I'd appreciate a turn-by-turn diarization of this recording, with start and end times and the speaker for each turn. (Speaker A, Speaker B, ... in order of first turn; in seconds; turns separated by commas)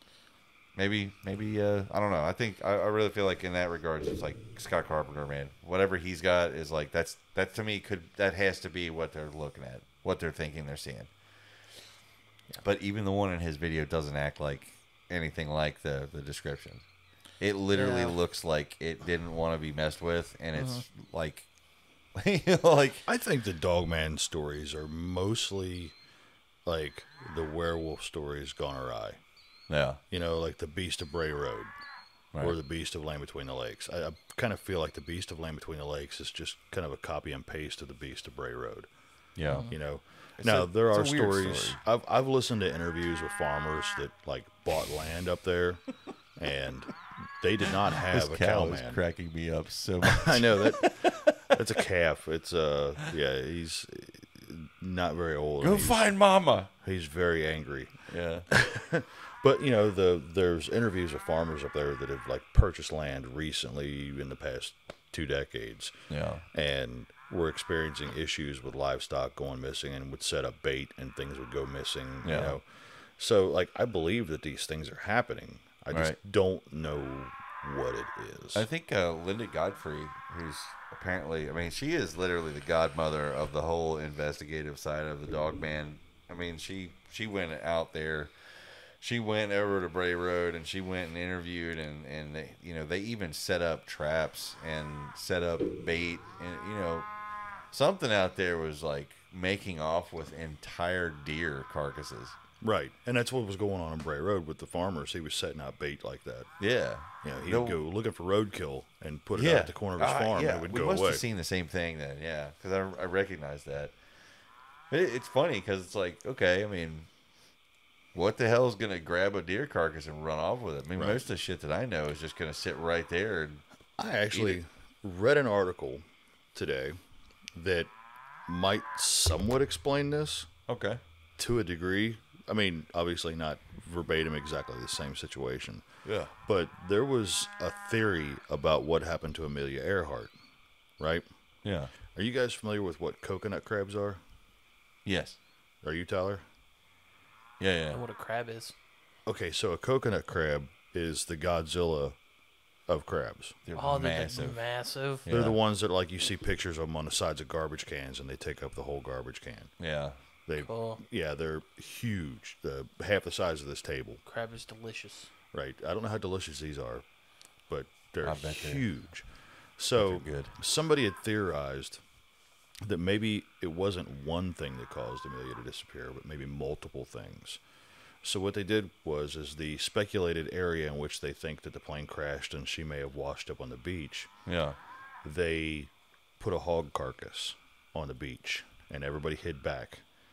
Speaker A: 0.8-11.1, Speaker A: 12.6-16.9, Speaker A: 17.4-21.5, Speaker B: 17.7-18.2, Speaker B: 20.6-20.9, Speaker A: 22.1-23.1, Speaker C: 23.1-26.0, Speaker C: 26.6-29.2, Speaker A: 29.7-30.0, Speaker C: 30.1-31.7, Speaker A: 32.3-32.6, Speaker C: 32.4-38.9, Speaker A: 39.4-41.8, Speaker B: 39.5-39.8, Speaker C: 39.5-49.0, Speaker A: 48.1-51.2, Speaker C: 50.1-78.7, Speaker A: 55.6-56.7, Speaker A: 58.1-58.5, Speaker A: 66.1-66.4, Speaker A: 72.2-72.6, Speaker A: 75.9-76.2, Speaker A: 78.5-88.3, Speaker A: 89.0-97.1, Speaker A: 97.7-102.4, Speaker C: 102.6-106.5, Speaker A: 106.6-107.8, Speaker C: 107.1-111.2, Speaker A: 109.3-114.0, Speaker A: 114.9-117.1, Speaker A: 118.1-123.6, Speaker C: 121.0-121.2, Speaker C: 124.0-127.0, Speaker A: 124.3-124.6, Speaker C: 127.5-130.5, Speaker A: 130.7-131.0, Speaker C: 131.4-140.4, Speaker A: 136.1-136.3, Speaker C: 141.0-141.3, Speaker A: 141.6-141.9, Speaker C: 142.1-144.2, Speaker A: 145.1-145.4, Speaker C: 145.8-146.4, Speaker A: 147.6-148.0, Speaker B: 147.9-148.8, Speaker C: 149.2-152.2, Speaker C: 152.9-153.6, Speaker A: 153.7-154.6, Speaker B: 153.8-155.2, Speaker A: 155.2-155.6, Speaker C: 155.3-159.8, Speaker A: 159.8-160.2, Speaker C: 160.4-164.2, Speaker B: 160.6-161.0, Speaker B: 164.3-165.3, Speaker C: 165.5-167.1, Speaker C: 167.7-172.0, Speaker A: 168.2-168.9, Speaker A: 169.9-170.6, Speaker C: 172.8-177.6, Speaker C: 178.2-184.5, Speaker A: 184.5-184.8, Speaker C: 185.2-190.1